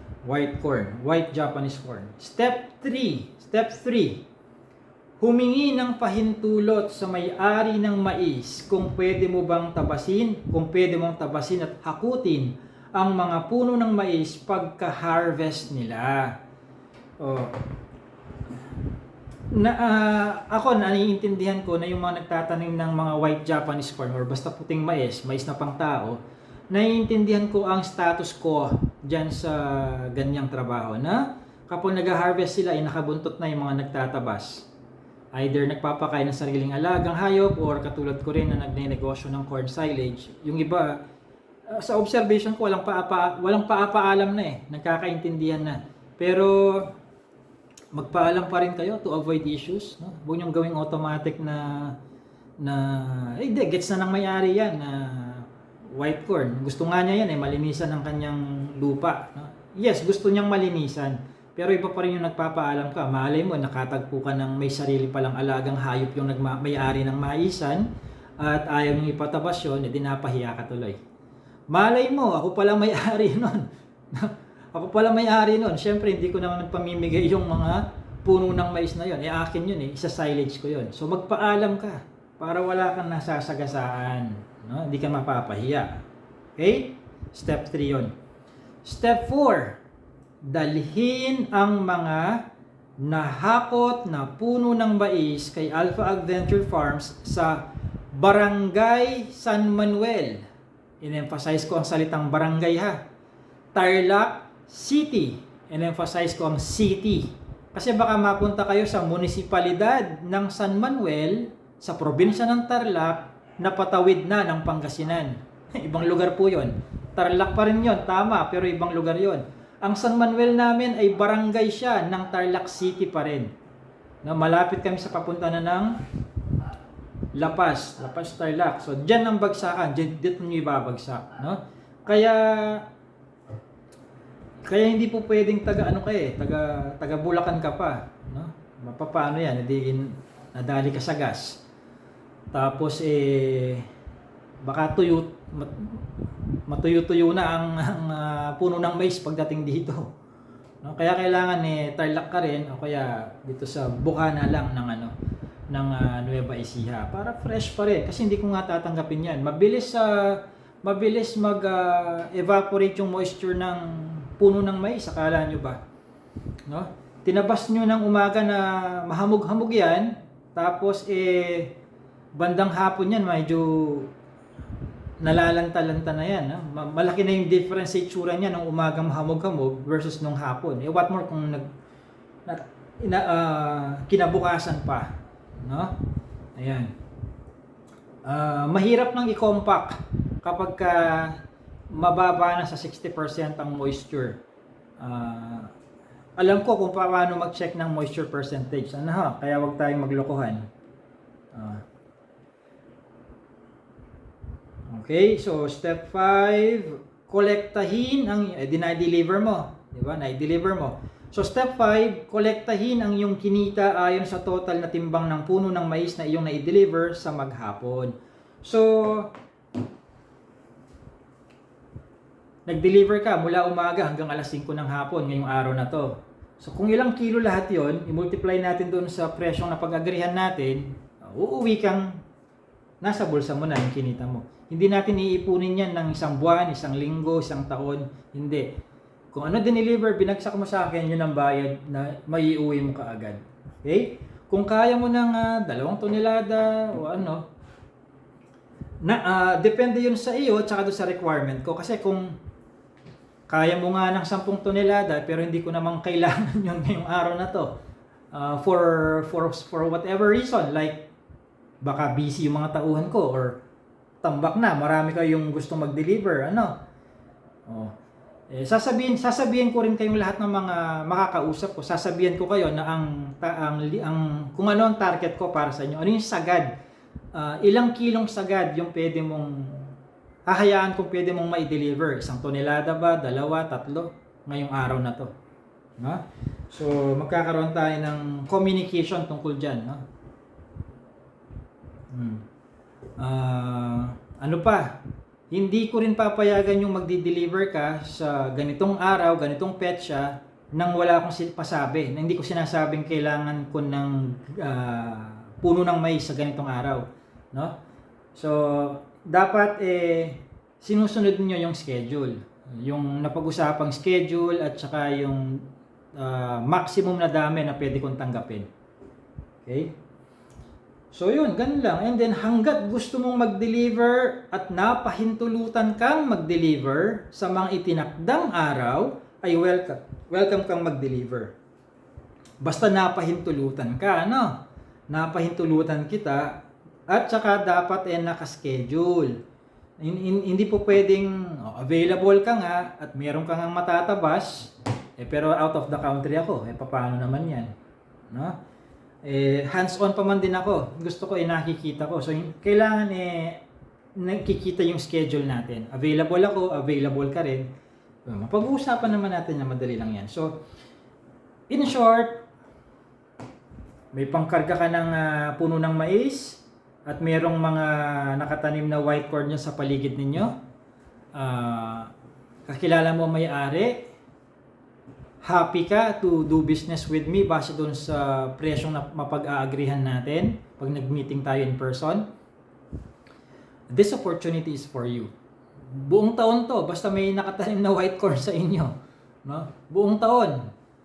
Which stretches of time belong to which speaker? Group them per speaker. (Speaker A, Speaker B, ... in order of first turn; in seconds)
Speaker A: 0.2-4.2, 5.2-16.3, 17.2-17.6, 19.5-26.2, 26.7-34.6, 35.3-41.0, 41.7-46.9, 47.9-51.9, 52.6-67.9, 68.4-71.0, 71.7-86.0, 86.6-88.1, 88.8-89.8, 90.4-92.4, 93.0-100.4, 101.0-103.0, 103.8-123.5, 124.2-125.9, 127.3-132.8, 134.7-141.6, 142.5-143.9, 144.6-146.1, 146.7-150.1, 150.8-155.1, 155.7-165.8, 166.7-171.7, 172.3-174.1, 175.2-181.7, 182.5-185.1, 185.6-185.9, 186.6-186.9, 188.2-191.4, 191.9-194.4, 195.0-195.7, 196.4-200.7, 201.5-201.8, 204.9-218.1, 218.6-219.3, 222.7-232.1, 233.0-238.7, 239.3-247.4, 249.0-252.3, 253.5-257.7, 258.3-261.1, 261.8-263.6, 264.2-266.7, 267.7-267.9, 268.5-276.7, 277.3-279.9, 280.5-285.3, 286.0-290.0, 292.1-292.4, 293.2-295.0, 295.5-307.8, 308.4-315.6, 316.2-318.7, 319.6-319.9, 321.1-331.5, 332.6-334.5, 335.1-336.6, 337.1-339.4, 340.0-347.7, 348.3-348.6, 349.2-353.6, 354.2-357.7, 358.3-360.6, 361.7-362.4, 364.1-370.5, 371.4-372.1, 372.7-374.1, 375.4-382.2, 383.9-385.3, 385.9-388.9, 389.4-390.6